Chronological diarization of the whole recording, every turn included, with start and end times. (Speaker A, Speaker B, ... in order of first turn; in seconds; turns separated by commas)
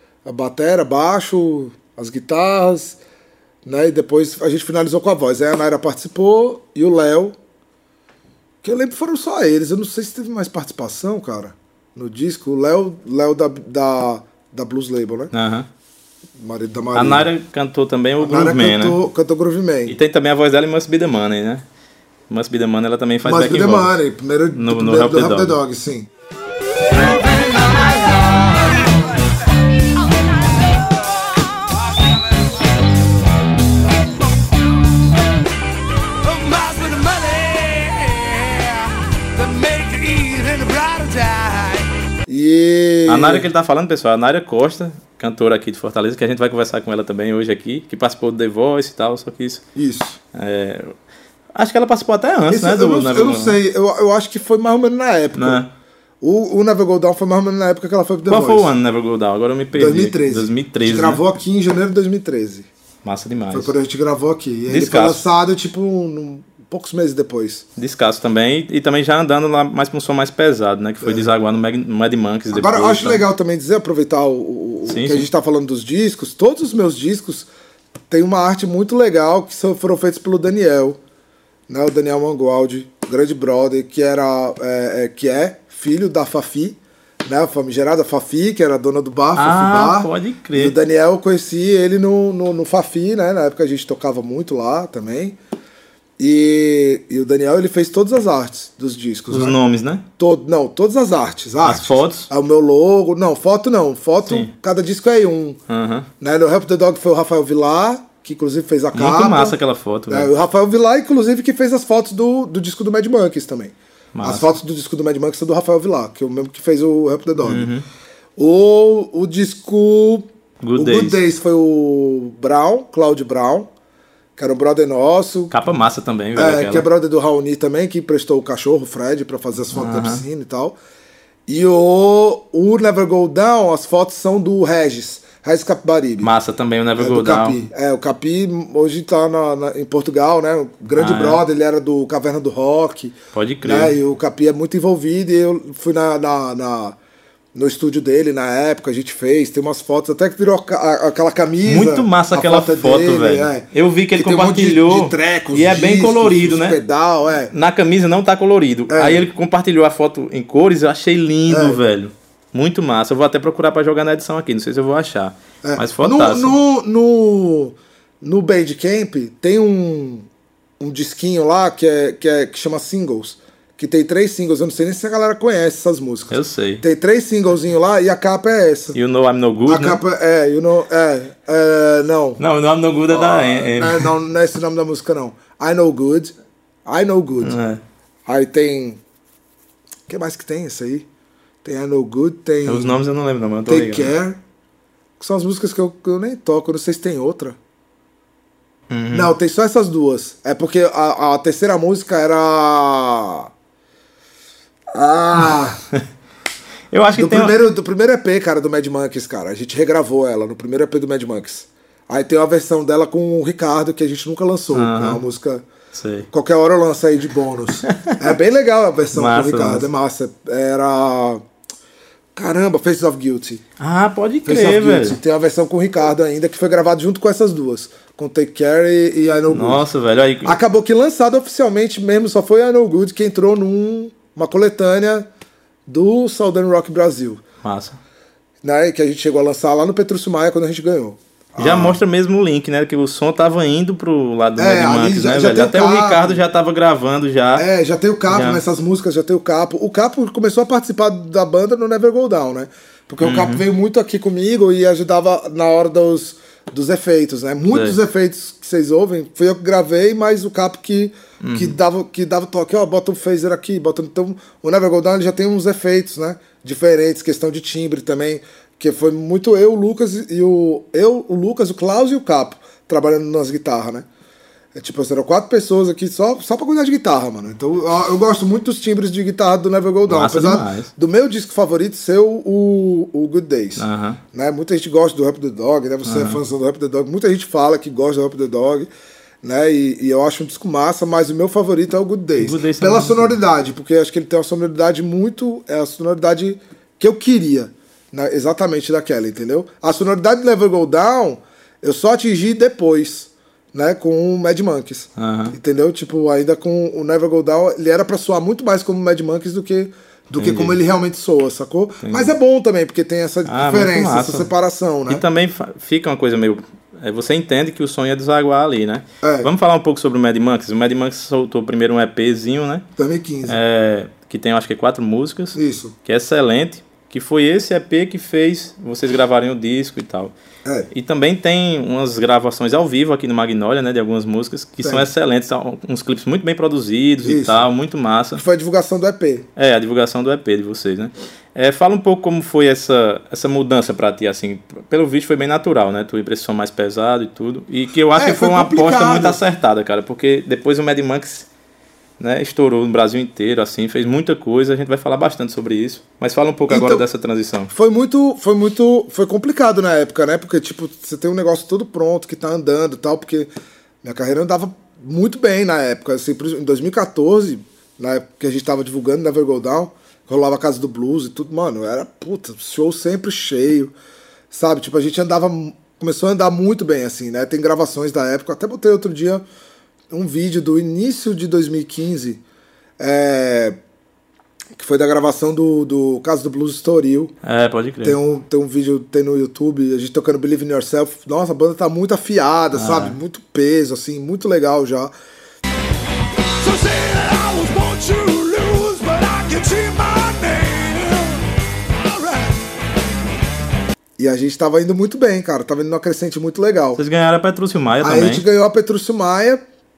Speaker A: 0.2-3.0, Speaker A: 3.6-7.4, Speaker A: 8.6-15.3, Speaker B: 15.3-15.7, Speaker A: 16.4-17.3, Speaker B: 16.9-19.0, Speaker A: 18.2-20.0, Speaker B: 19.9-21.6, Speaker B: 22.3-24.0, Speaker A: 23.2-26.1, Speaker B: 24.5-25.6, Speaker C: 26.9-28.9, Speaker C: 36.2-41.9, Speaker A: 42.3-43.5, Speaker B: 43.1-49.6, Speaker A: 49.8-50.2, Speaker B: 50.3-51.0, Speaker B: 51.5-53.6, Speaker A: 52.5-55.6, Speaker B: 55.4-55.7, Speaker A: 56.2-58.7, Speaker B: 58.3-61.2, Speaker A: 59.7-62.7, Speaker B: 63.0-63.7, Speaker A: 63.5-67.6, Speaker B: 64.7-65.2, Speaker B: 67.8-73.2, Speaker A: 71.0-71.3, Speaker A: 72.5-77.5, Speaker B: 74.9-75.3, Speaker A: 78.1-81.0, Speaker A: 81.7-95.4, Speaker B: 89.4-90.8, Speaker A: 96.2-99.6, Speaker B: 99.3-100.0, Speaker A: 100.2-105.6, Speaker B: 101.6-102.3, Speaker B: 104.3-104.5, Speaker B: 105.7-106.1, Speaker A: 106.2-109.6, Speaker B: 108.9-110.3, Speaker A: 110.1-117.7, Speaker B: 114.1-114.5, Speaker B: 117.4-117.8, Speaker A: 118.4-123.7, Speaker B: 120.6-121.2, Speaker A: 124.4-125.5, Speaker B: 125.5-126.9, Speaker A: 126.4-130.8, Speaker B: 129.7-130.2, Speaker A: 131.5-136.3, Speaker B: 136.2-137.6, Speaker A: 137.0-147.0, Speaker B: 140.9-141.4, Speaker B: 143.3-144.0, Speaker A: 147.6-157.5, Speaker B: 151.7-156.8, Speaker B: 157.5-166.6, Speaker A: 158.9-159.3, Speaker A: 161.5-161.8, Speaker A: 165.6-170.3, Speaker A: 170.8-179.0, Speaker B: 176.3-176.8, Speaker B: 178.9-180.0, Speaker A: 179.7-182.4, Speaker B: 182.4-184.1, Speaker A: 183.1-186.3, Speaker A: 186.9-187.6, Speaker B: 187.4-187.8, Speaker A: 188.3-189.0, Speaker A: 190.1-191.1, Speaker A: 191.6-193.0, Speaker B: 192.7-194.1, Speaker A: 193.7-194.4, Speaker A: 195.2-197.6, Speaker B: 198.9-199.3, Speaker A: 199.1-203.5, Speaker A: 204.9-205.8, Speaker B: 206.9-207.6, Speaker A: 207.2-215.6, Speaker B: 214.7-215.2, Speaker B: 215.9-216.3, Speaker A: 216.3-221.4, Speaker B: 217.8-218.2, Speaker B: 219.1-219.9, Speaker A: 222.3-223.6, Speaker B: 223.8-225.2, Speaker A: 224.4-229.8, Speaker B: 229.5-230.6, Speaker A: 230.4-235.3, Speaker A: 235.9-237.4, Speaker B: 237.6-238.0, Speaker A: 238.6-242.0, Speaker B: 241.6-247.7, Speaker A: 244.6-246.4, Speaker A: 247.6-274.1, Speaker B: 248.3-248.6, Speaker B: 253.2-253.6, Speaker B: 257.7-258.0, Speaker B: 261.4-261.8, Speaker A: 274.8-288.9, Speaker B: 280.1-280.9, Speaker B: 283.8-284.2, Speaker B: 286.1-286.4, Speaker A: 289.4-315.2, Speaker B: 292.4-293.4, Speaker B: 305.2-305.6, Speaker B: 310.4-310.8, Speaker B: 312.0-312.3, Speaker B: 313.5-314.5, Speaker B: 315.1-322.9, Speaker A: 319.2-319.5, Speaker A: 323.0-323.6, Speaker B: 323.5-330.3, Speaker A: 325.6-325.9, Speaker B: 330.9-338.4, Speaker A: 334.8-335.1, Speaker A: 337.2-337.7, Speaker A: 338.4-339.5, Speaker B: 339.6-351.5, Speaker A: 348.1-349.4, Speaker B: 352.2-357.7, Speaker A: 356.7-357.1, Speaker A: 357.7-363.5, Speaker A: 364.0-373.9, Speaker A: 374.5-379.4, Speaker A: 380.1-382.4, Speaker A: 383.0-383.8, Speaker A: 384.8-387.3, Speaker B: 387.4-388.2, Speaker A: 388.0-395.1, Speaker B: 392.8-393.2, Speaker C: 396.5-402.6, Speaker A: 404.2-407.0, Speaker B: 407.0-408.4, Speaker A: 408.0-409.6